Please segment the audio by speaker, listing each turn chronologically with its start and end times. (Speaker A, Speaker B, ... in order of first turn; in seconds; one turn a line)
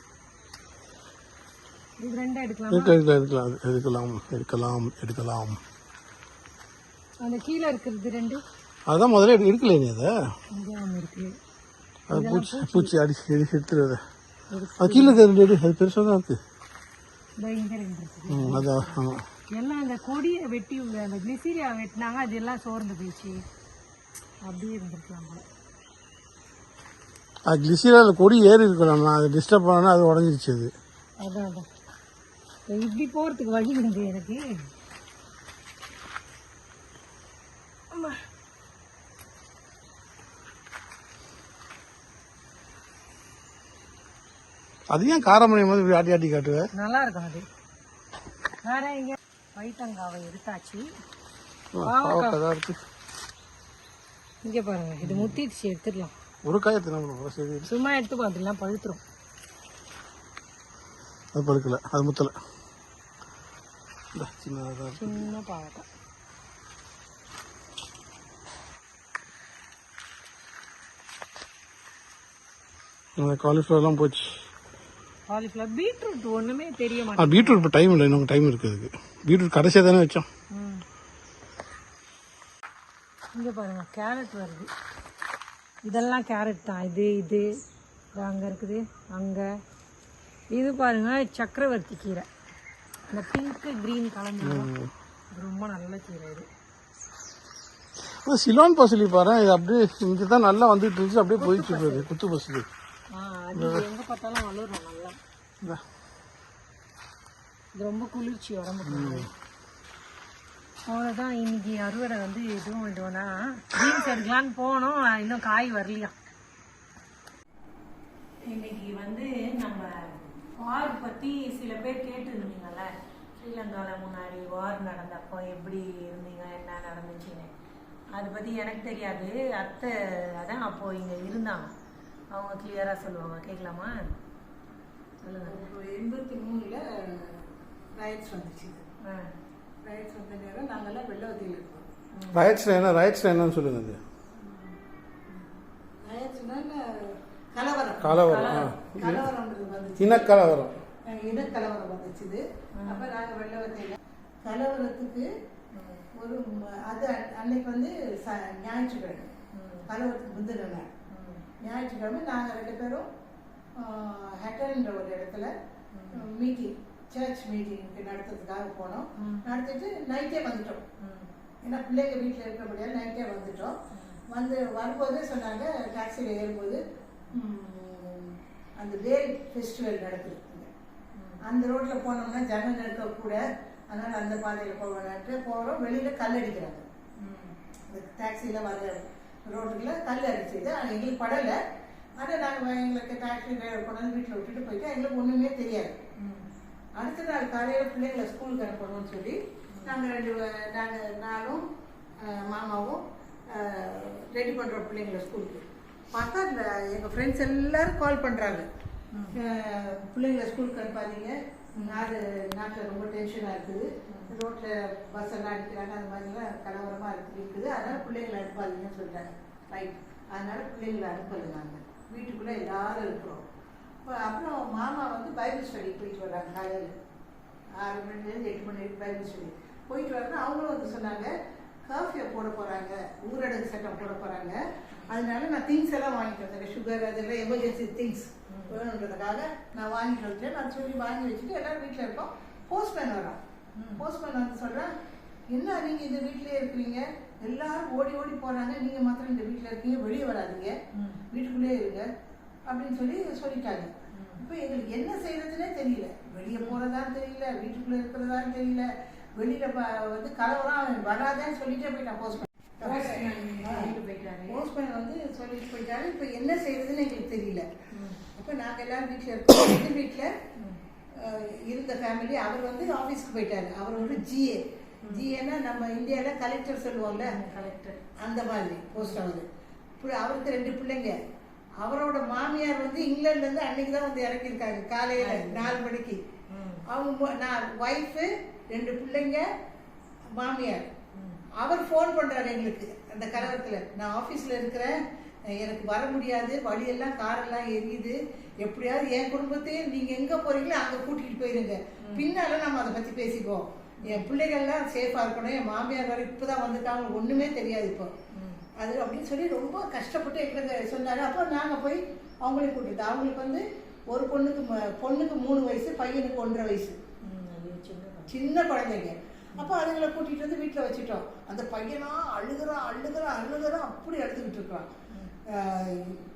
Speaker A: 2.0-3.0
Speaker B: 2.7-5.6
Speaker A: 7.2-8.4
Speaker B: 8.9-10.3
Speaker A: 10.5-11.3
Speaker B: 12.1-14.0
Speaker A: 12.1-12.9
Speaker A: 14.5-15.2
Speaker B: 14.8-16.4
Speaker A: 17.4-19.0
Speaker B: 18.3-19.3
Speaker A: 19.6-23.4
Speaker A: 24.4-25.4
Speaker B: 27.5-30.7
Speaker A: 31.2-31.7
Speaker A: 32.7-34.5
Speaker A: 37.9-38.2
Speaker B: 44.9-46.7
Speaker A: 46.7-47.5
Speaker A: 48.6-50.9
Speaker B: 51.7-52.8
Speaker A: 51.8-52.4
Speaker A: 54.4-56.1
Speaker B: 55.0-55.4
Speaker B: 56.5-57.7
Speaker A: 57.7-59.0
Speaker B: 61.3-62.4
Speaker B: 64.2-65.3
Speaker A: 64.9-65.8
Speaker B: 73.2-74.4
Speaker A: 75.3-77.7
Speaker B: 77.2-80.3
Speaker A: 80.5-80.8
Speaker A: 83.3-84.7
Speaker A: 85.9-87.5
Speaker A: 88.2-89.5
Speaker A: 90.5-92.3
Speaker A: 93.1-94.7
Speaker B: 94.4-94.9
Speaker A: 95.3-96.5
Speaker B: 98.1-102.7
Speaker A: 101.4-102.1
Speaker A: 103.1-105.2
Speaker B: 103.5-103.8
Speaker A: 107.8-109.3
Speaker B: 108.9-109.3
Speaker A: 110.9-116.2
Speaker A: 118.5-127.5
Speaker A: 128.1-131.7
Speaker A: 132.3-134.1
Speaker A: 135.2-135.7
Speaker C: 135.4-138.8
Speaker A: 139.0-139.3
Speaker C: 139.8-141.9
Speaker A: 142.1-142.4
Speaker B: 142.3-144.0
Speaker C: 146.0-148.3
Speaker B: 148.0-149.3
Speaker A: 148.2-148.8
Speaker C: 149.0-150.3
Speaker B: 150.0-150.8
Speaker C: 151.1-155.3
Speaker A: 151.3-151.6
Speaker A: 152.8-153.1
Speaker A: 155.7-156.1
Speaker C: 156.2-159.3
Speaker A: 159.5-159.9
Speaker C: 159.9-160.9
Speaker A: 161.1-161.5
Speaker C: 161.6-163.1
Speaker C: 163.8-165.5
Speaker A: 165.9-166.2
Speaker C: 166.1-170.8
Speaker A: 169.2-169.5
Speaker A: 171.0-171.3
Speaker C: 171.6-173.8
Speaker A: 173.9-174.2
Speaker C: 174.3-176.8
Speaker C: 177.3-180.7
Speaker A: 181.2-181.4
Speaker C: 181.4-186.9
Speaker A: 187.2-187.6
Speaker C: 187.9-191.6
Speaker C: 192.2-196.0
Speaker A: 196.2-196.5
Speaker C: 197.0-201.6
Speaker A: 199.7-200.0
Speaker C: 202.2-208.7
Speaker C: 209.3-223.4
Speaker A: 211.8-212.1
Speaker A: 214.1-214.3
Speaker C: 224.1-226.9
Speaker C: 227.8-231.3
Speaker C: 231.9-243.4
Speaker A: 238.5-238.8
Speaker A: 243.8-244.1
Speaker C: 244.0-244.9
Speaker C: 245.5-250.8
Speaker A: 250.9-251.2
Speaker C: 251.3-252.1
Speaker C: 252.7-263.9
Speaker A: 254.1-254.4
Speaker A: 256.4-256.8
Speaker A: 262.8-264.6
Speaker C: 264.5-267.7
Speaker A: 267.9-268.2
Speaker C: 268.4-270.3
Speaker A: 270.6-270.8
Speaker C: 271.1-277.4
Speaker A: 273.9-274.2
Speaker A: 277.2-278.0
Speaker C: 278.2-279.5
Speaker C: 280.0-281.2
Speaker C: 281.8-286.2
Speaker A: 285.2-285.8
Speaker A: 286.5-286.9
Speaker C: 286.9-289.5
Speaker C: 290.4-290.9
Speaker A: 291.1-291.4
Speaker C: 291.6-295.0
Speaker C: 295.5-308.1
Speaker A: 302.0-302.3
Speaker A: 304.0-304.3
Speaker A: 308.3-308.6
Speaker C: 308.8-317.0
Speaker A: 317.2-318.3
Speaker C: 318.3-324.9
Speaker C: 325.5-326.2